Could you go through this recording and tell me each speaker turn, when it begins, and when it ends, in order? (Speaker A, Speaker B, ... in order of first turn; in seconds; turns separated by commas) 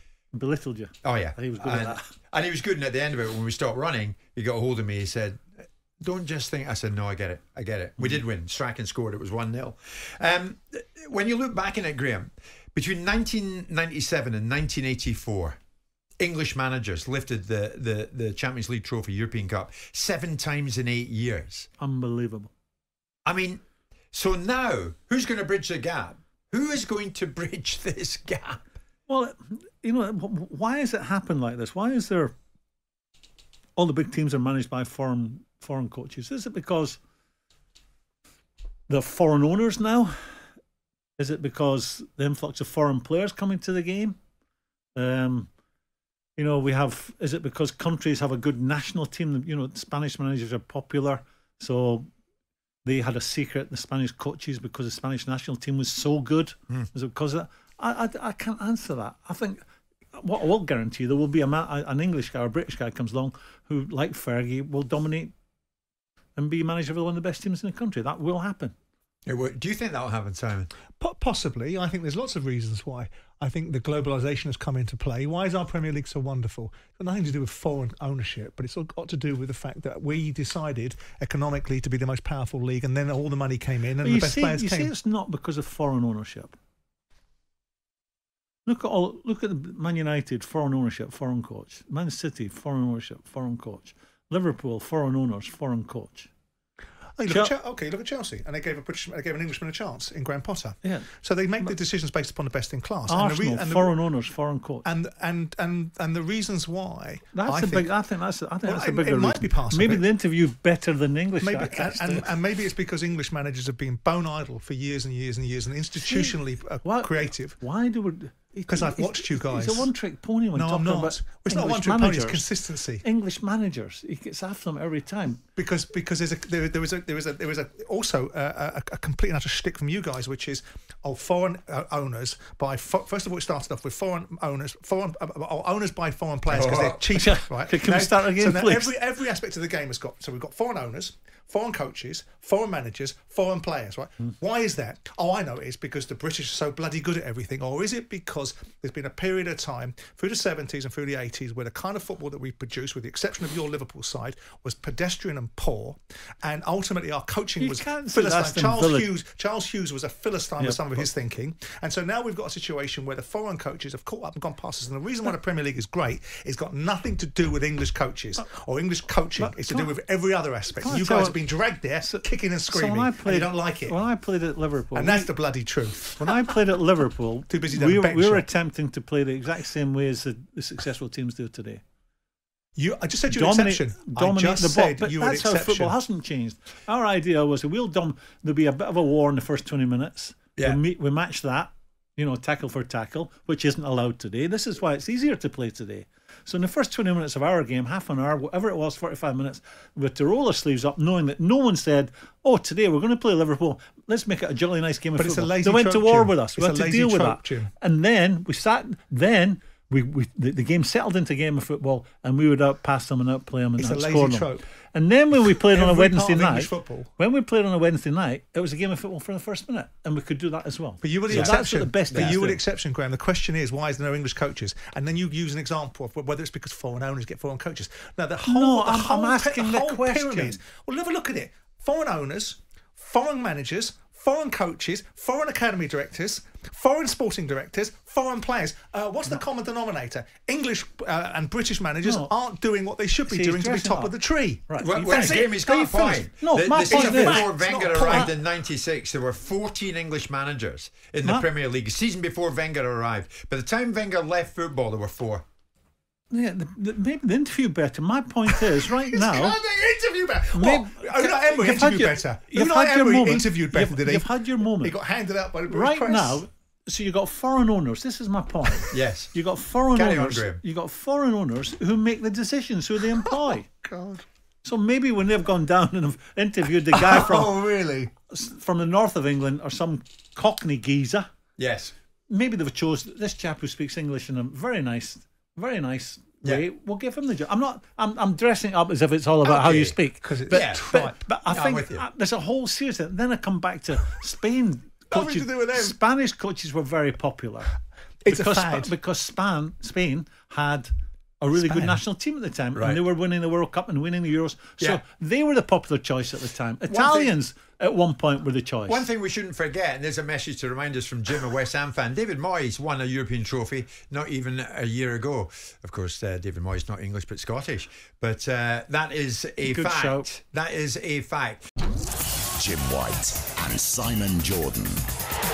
Speaker A: 0.3-2.0, Speaker B: 1.0-5.4, Speaker B: 6.0-15.6, Speaker B: 16.2-21.7, Speaker A: 21.8-22.5, Speaker B: 23.2-23.6, Speaker B: 24.1-28.6, Speaker A: 29.1-32.3, Speaker A: 33.8-37.0, Speaker A: 38.9-40.4, Speaker A: 41.2-44.2, Speaker A: 45.0-45.5, Speaker A: 46.4-52.1, Speaker A: 52.9-59.6, Speaker A: 60.1-65.3, Speaker A: 66.4-68.7, Speaker B: 69.3-70.7, Speaker C: 71.0-84.9, Speaker A: 84.0-86.6, Speaker A: 88.7-96.3, Speaker C: 97.2-104.0, Speaker A: 100.8-101.1, Speaker A: 103.1-104.8, Speaker C: 104.8-107.9, Speaker A: 107.3-112.3, Speaker C: 108.7-110.1, Speaker C: 111.4-117.6, Speaker A: 116.0-122.5, Speaker C: 118.7-119.9, Speaker C: 120.5-123.0, Speaker A: 123.0-125.4, Speaker C: 125.6-174.0, Speaker B: 136.5-137.1, Speaker A: 137.1-139.0, Speaker A: 157.6-159.1, Speaker A: 160.6-161.1, Speaker A: 169.4-169.9, Speaker A: 170.7-171.4, Speaker A: 172.0-175.3, Speaker C: 174.9-176.5, Speaker A: 176.1-181.8, Speaker C: 177.5-178.5, Speaker C: 182.8-185.9, Speaker A: 183.3-222.6, Speaker C: 205.2-207.7, Speaker C: 213.8-214.7, Speaker C: 215.4-217.1, Speaker C: 221.0-246.3, Speaker B: 222.1-222.4, Speaker A: 228.4-230.6, Speaker A: 242.0-242.3, Speaker A: 243.3-244.2, Speaker A: 244.7-248.3, Speaker B: 244.8-255.4, Speaker C: 246.9-248.3, Speaker A: 256.3-259.6, Speaker C: 258.5-266.4, Speaker A: 260.6-265.0, Speaker A: 265.7-273.7, Speaker B: 268.9-269.3, Speaker B: 269.9-270.6, Speaker C: 273.2-274.2, Speaker A: 274.6-277.7, Speaker C: 276.9-278.1, Speaker A: 278.3-281.3, Speaker B: 281.6-281.9, Speaker A: 282.3-300.9, Speaker B: 289.6-290.0, Speaker C: 290.2-291.2, Speaker B: 290.5-292.1, Speaker C: 295.1-295.9, Speaker C: 298.3-298.9, Speaker A: 301.4-309.1, Speaker C: 301.5-302.0, Speaker B: 302.8-303.0, Speaker B: 306.9-307.3, Speaker B: 308.9-321.6, Speaker A: 319.6-320.3, Speaker D: 322.6-325.1